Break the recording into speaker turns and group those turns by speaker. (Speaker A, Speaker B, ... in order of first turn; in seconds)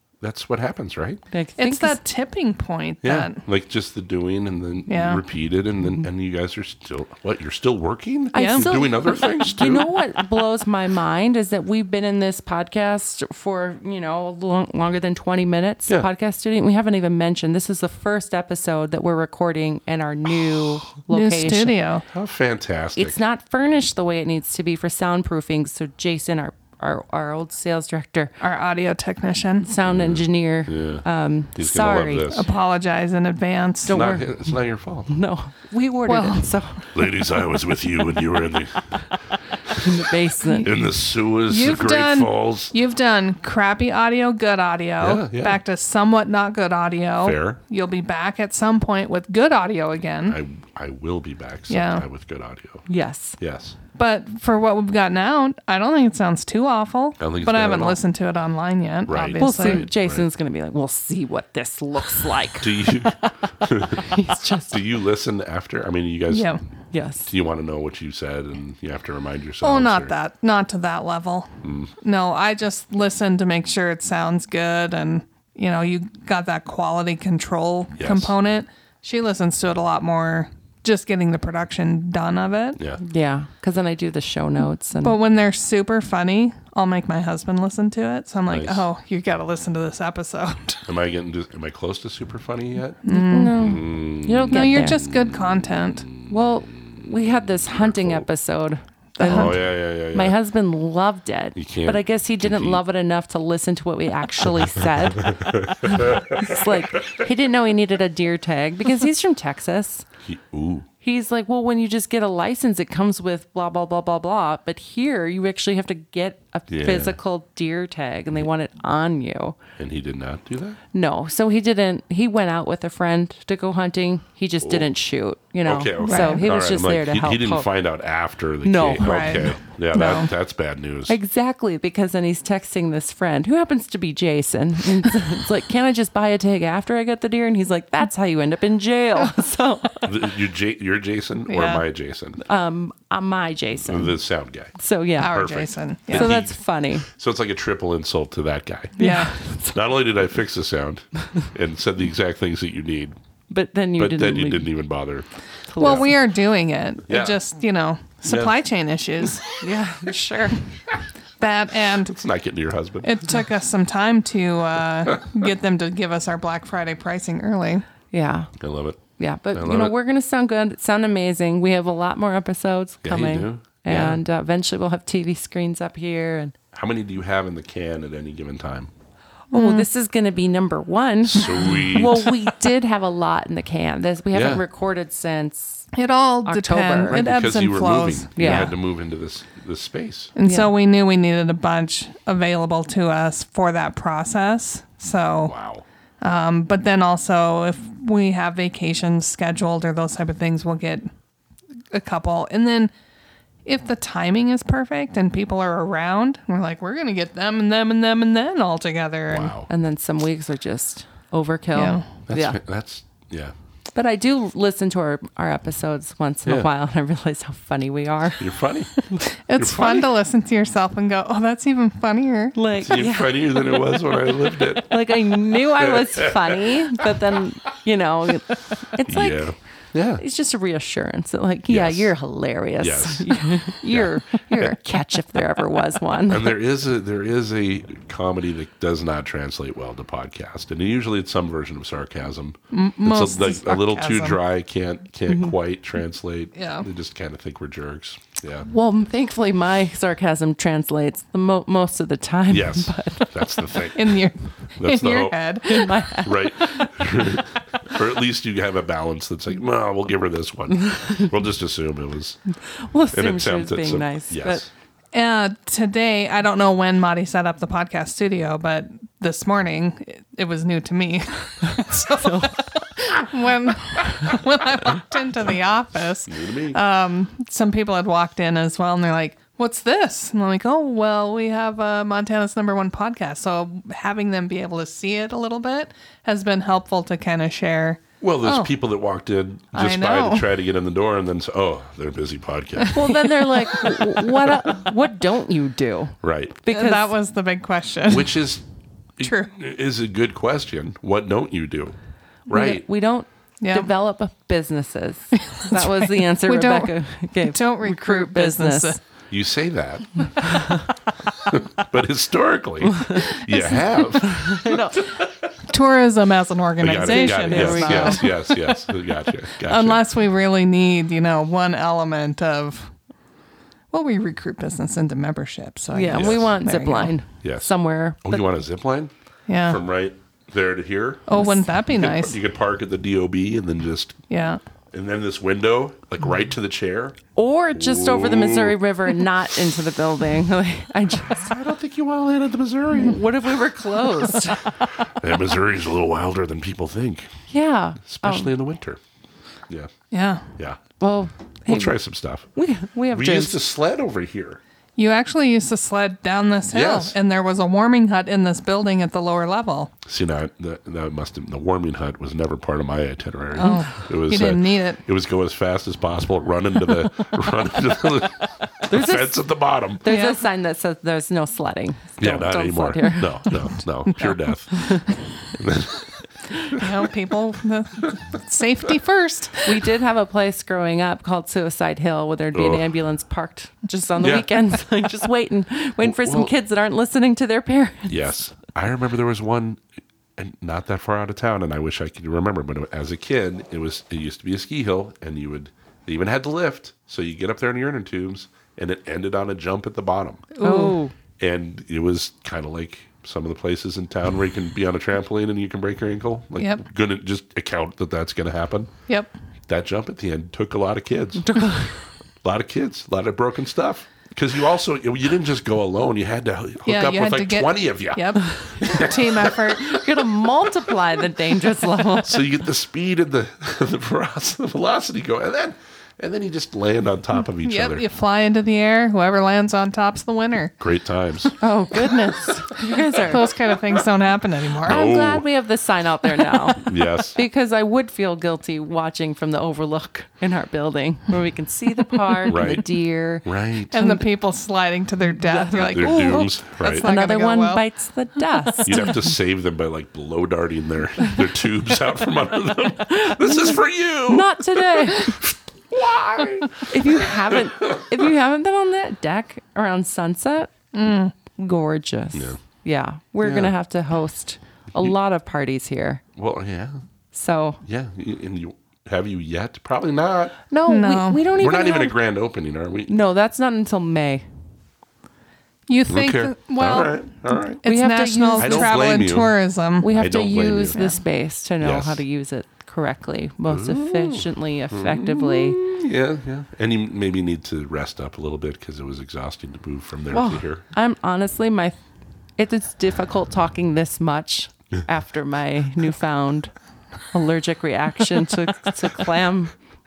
Speaker A: 0.2-1.2, 3.0-9.9, 22.1-23.2, 29.8-31.0, 31.6-32.5, 33.9-35.1, 36.9-39.9, 40.6-42.7, 45.0-45.6, 47.2-47.6, 50.3-52.9, 53.4-53.8, 57.2-58.0, 59.1-60.2, 62.6-66.5, 67.2-70.2, 71.6-71.9, 78.0-78.3, 88.5-88.8, 90.8-93.0, 93.5-98.3, 99.3-100.3, 101.5-102.8, 104.8-107.1, 110.2-110.9, 116.7-117.2, 119.8-120.8, 124.6-124.9, 125.6-131.2, 140.0-142.4, 143.8-149.0, 149.7-153.2, 154.0-155.2, 155.8-156.1, 157.1-157.4, 158.3-158.5, 162.0-163.3, 168.6-169.0, 169.5-169.9, 173.0-174.2, 176.7-178.9, 181.2-182.3, 184.3-184.6, 187.1-190.3, 195.4-195.8, 209.3-209.7, 212.3-213.5, 218.4-218.9, 219.5-220.1, 222.7-227.2, 229.0-230.2, 231.7-232.1, 232.8-234.8, 236.3-248.7, 252.5-255.4, 256.2-262.4, 263.1-264.7, 276.2-276.8, 288.2-293.1, 296.2-296.6, 298.1-298.6, 299.2-301.9, 302.5-302.8, 309.3-310.6, 311.4-315.0, 316.8-320.0, 326.1-326.6, 327.4-329.1, 329.7-334.2, 334.9-337.2, 337.7-338.8, 341.2-343.5, 345.0-347.3, 348.1-349.0, 351.7-352.4, 353.1-354.6, 356.7-357.1, 360.1-370.1, 372.2-376.9, 382.5-382.9, 384.2-384.5, 386.0-386.5, 388.1-389.8, 390.4-400.5, 401.4-408.9, 409.7-411.6, 412.4-419.7, 422.2-428.0, 430.8-431.5, 434.8-435.4, 436.7-437.4, 442.4-443.9, 445.7-447.1, 448.8-458.2, 462.3-462.6, 463.4-463.7, 466.4-467.0, 467.8-470.5, 471.5-473.1, 476.1-477.8, 478.6-479.5, 480.1-480.9, 481.8-482.2, 483.7-490.9
Speaker B: 1.3-2.0, 8.3-21.8, 22.9-28.3, 29.6-32.4, 33.8-34.5, 35.1-37.0, 39.7-40.7, 52.9-53.4, 59.4-63.3, 63.8-64.8, 66.9-67.3, 83.0-85.2, 93.0-95.0, 96.3-110.1, 111.0-119.6, 120.9-127.7, 128.6-129.5, 131.1-140.1, 142.4-144.2, 144.8-145.4, 146.1-147.1, 149.0-149.8, 153.5-154.7, 155.7-156.1, 159.6-160.6, 168.1-168.5, 169.2-176.6, 179.5-185.9, 186.4-187.2, 188.3-188.7, 190.4-190.7, 209.7-212.6, 213.9-218.5, 222.5-224.0, 224.8-229.5, 230.2-236.6, 248.7-253.4, 255.7-257.4, 260.9-261.3, 262.7-264.6, 272.2-272.6, 292.9-297.1, 302.5-309.0, 310.4-310.9, 312.8-313.4, 314.2-315.0, 317.0-318.3, 325.9-328.5, 337.4-341.5, 342.9-344.9, 347.5-348.5, 351.0-352.0, 352.5-353.6, 363.6-363.9, 368.9-369.4, 370.0-373.6, 374.7-375.0, 379.6-388.3, 400.6-401.1, 411.4-411.9, 419.7-422.4, 431.6-433.4, 434.8-444.2, 445.4-446.5, 447.0-449.3, 453.2-455.4, 456.8-460.7, 461.5-466.2, 467.3-467.8, 470.7-472.2, 473.1-474.4, 477.8-479.0, 480.0-485.8, 490.3-492.0, 492.6-496.7, 497.3-499.7
Speaker C: 1.6-3.4, 4.9-5.2, 8.3-8.7, 21.1-22.1, 28.4-29.7, 32.3-34.1, 36.1-36.6, 41.5-50.4, 51.7-52.0, 54.0-59.9, 66.3-66.6, 69.6-82.8, 85.0-90.8, 93.0-93.8, 94.5-96.1, 99.2-99.6, 126.0-126.4, 129.0-130.3, 141.5-141.8, 145.2-146.3, 149.0-149.3, 155.8-159.5, 160.2-160.5, 161.4-162.2, 163.0-167.8, 179.5-179.9, 185.9-188.7, 190.3-195.5, 196.2-201.1, 201.9-202.9, 203.7-209.6, 211.7-212.1, 219.2-222.6, 242.7-244.4, 246.5-246.8, 253.9-256.0, 265.1-288.7, 289.7-290.5, 293.0-294.0, 296.7-298.4, 299.2-299.5, 303.6-303.9, 305.5-309.0, 315.7-318.6, 319.6-322.9, 323.9-327.1, 329.5-329.8, 331.3-332.4, 334.3-334.6, 350.1-350.5, 355.0-359.9, 363.5-365.0, 370.1-370.4, 376.7-379.8, 400.5-401.0, 416.9-420.0, 427.6-430.7, 433.2-435.0, 443.9-447.8, 460.9-461.3, 470.9-471.4, 475.9-477.3, 477.8-480.1, 480.9-481.2